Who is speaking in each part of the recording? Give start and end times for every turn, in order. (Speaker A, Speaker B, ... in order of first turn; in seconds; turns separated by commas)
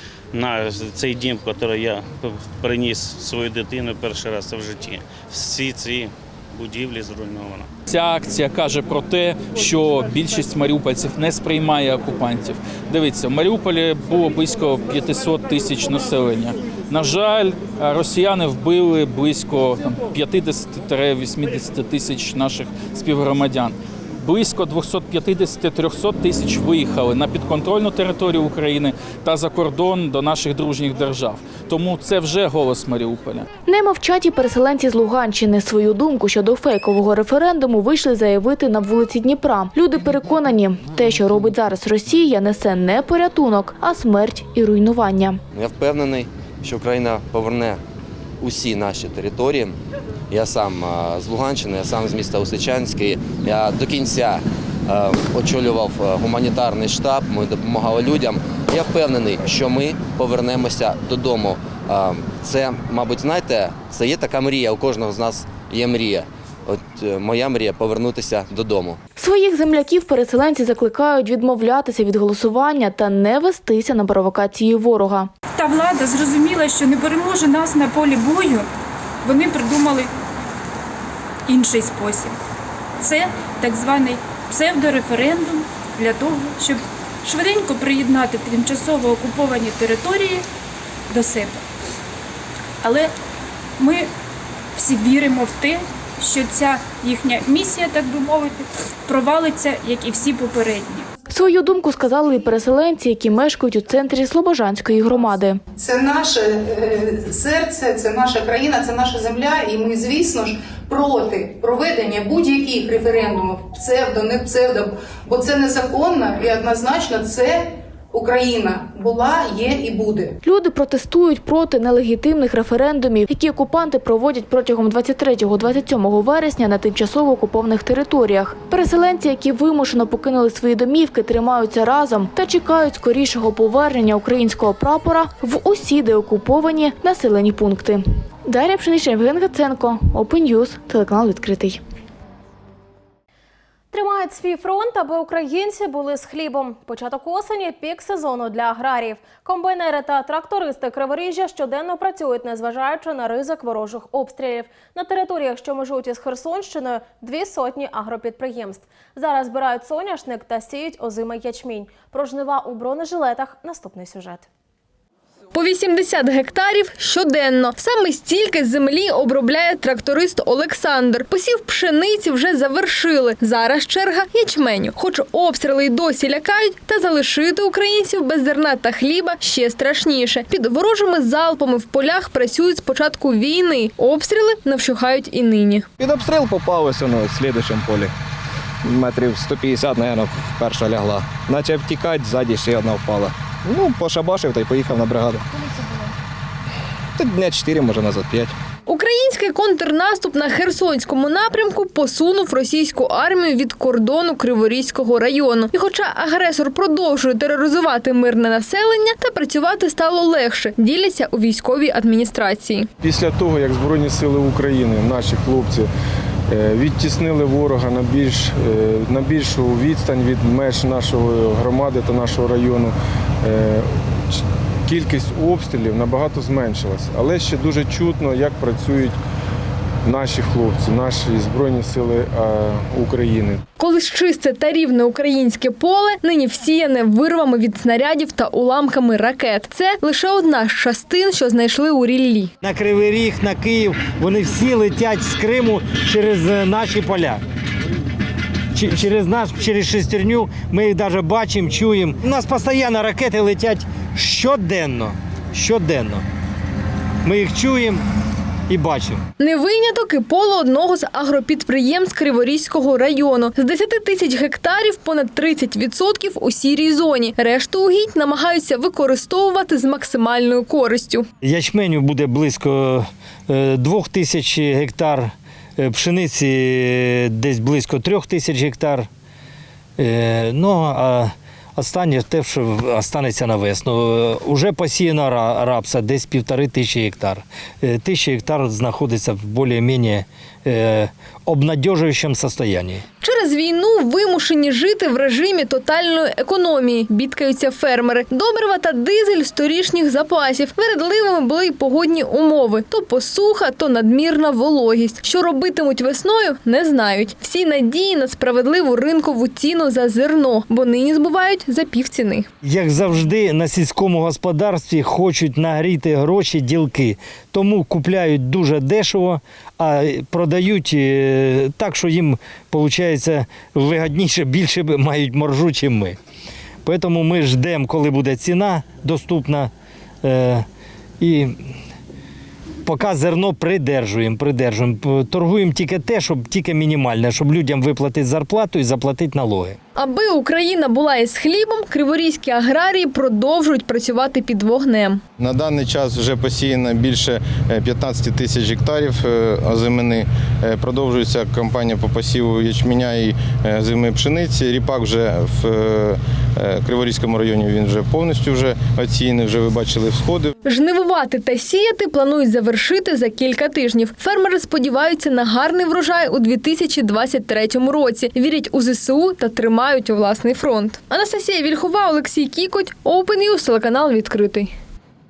Speaker A: 0.3-7.7, Speaker B: 7.9-33.5, Speaker C: 33.6-45.4, Speaker D: 45.5-47.8, Speaker D: 48.4-49.8, Speaker D: 50.3-69.0, Speaker C: 69.2-75.3, Speaker E: 75.5-78.7, Speaker E: 79.2-80.1, Speaker E: 81.5-82.3, Speaker E: 83.0-90.5, Speaker E: 91.1-91.6, Speaker E: 92.8-93.1, Speaker E: 93.8-94.1, Speaker E: 94.8-101.1, Speaker C: 101.3-105.6, Speaker F: 105.8-120.4, Speaker C: 120.4-141.8, Speaker G: 143.9-164.4, Speaker H: 165.5-185.8, Speaker I: 186.0-188.1, Speaker I: 188.8-195.4, Speaker I: 197.2-198.5, Speaker H: 198.9-212.9, Speaker J: 213.0-215.9, Speaker J: 216.5-229.2, Speaker J: 230.0-233.6, Speaker H: 233.8-242.5, Speaker K: 242.6-247.4, Speaker K: 248.7-256.2, Speaker K: 257.2-258.0, Speaker K: 258.7-259.2, Speaker H: 259.4-271.3, Speaker K: 271.4-279.1, Speaker K: 280.0-293.0, Speaker H: 293.2-312.5, Speaker K: 312.6-326.2, Speaker K: 326.8-329.7, Speaker K: 330.2-330.6, Speaker K: 331.2-331.7, Speaker K: 332.8-339.8, Speaker H: 339.9-345.2, Speaker I: 345.4-360.5, Speaker H: 360.6-374.7